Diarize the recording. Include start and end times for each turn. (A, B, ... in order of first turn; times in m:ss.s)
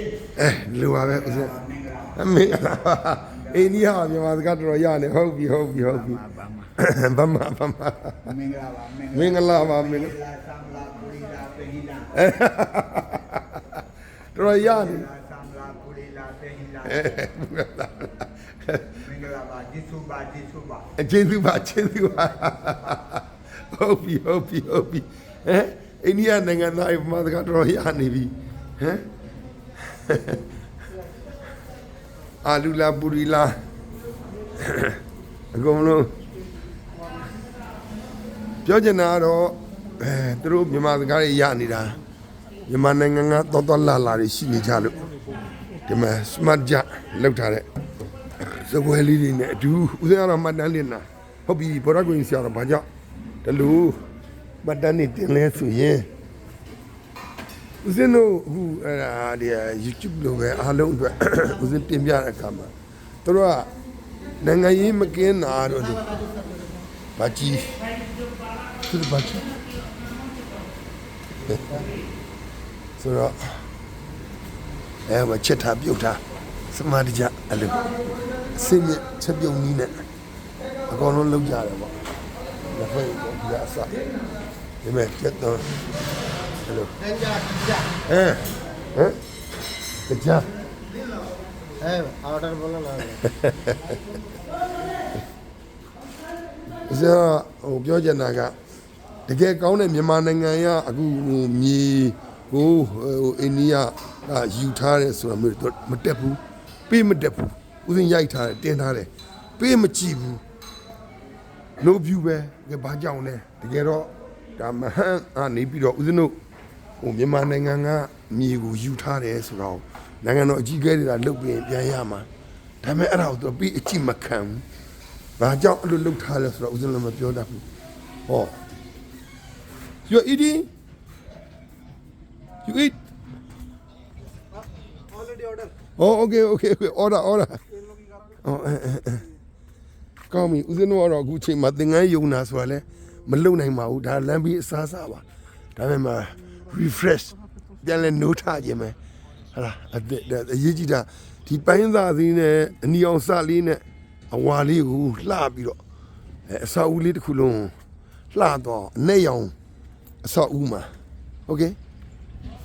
0:00.3-0:01.6 A
0:01.6-0:02.1 B
0:02.1-0:08.4 A
0:06.3-0:06.6 B
0:08.4-0:09.1 B
0:09.1-0:10.2 A
0:10.1-0:12.1 B
0:12.1-0:13.8 A
0:14.3-0:15.1 A
0:15.0-0:16.8 B
0:16.8-0:19.1 A
0:19.0-0:20.9 B
0:20.9-0:29.1 A
0:29.9-0:30.4 A
0:32.4-0:33.6 A
0:34.6-0:35.0 A
0:35.5-0:36.1 A
0:38.6-0:42.0 A
0:42.7-0:45.0 A
0:45.9-0:47.7 A
0:48.4-0:52.8 A
0:53.4-0:54.0 A
0:54.6-0:56.1 A
0:57.8-1:02.7 A
1:03.2-1:03.7 A
1:04.4-1:06.2 A
1:07.2-1:07.7 A
1:08.8-1:09.6 A
1:11.5-1:11.8 A
1:13.0-1:13.6 A
1:15.1-1:20.1 A
1:20.9-1:22.0 A
1:22.7-1:24.0 A
1:24.8-1:25.7 A
1:26.6-1:26.9 A
1:27.0-1:28.0 C
1:28.0-1:29.2 A
1:30.1-1:30.5 A
1:31.8-1:33.2 C
1:33.2-1:34.0 A
1:36.8-1:38.6 A
1:39.3-1:50.4 A
1:51.8-1:56.4 A
1:57.0-2:02.3 A
2:02.8-2:04.6 A
2:05.4-2:07.6 A
2:08.3-2:08.6 A
2:10.1-2:10.7 A
2:12.6-2:13.0 A
2:15.0-2:15.7 C
2:16.0-2:17.6 A
2:18.4-2:19.2 A
2:20.3-2:29.0 A
2:29.5-2:35.8 A
2:36.5-2:37.7 A
2:38.3-2:39.5 A
2:40.2-2:40.9 A
2:41.5-2:41.8 A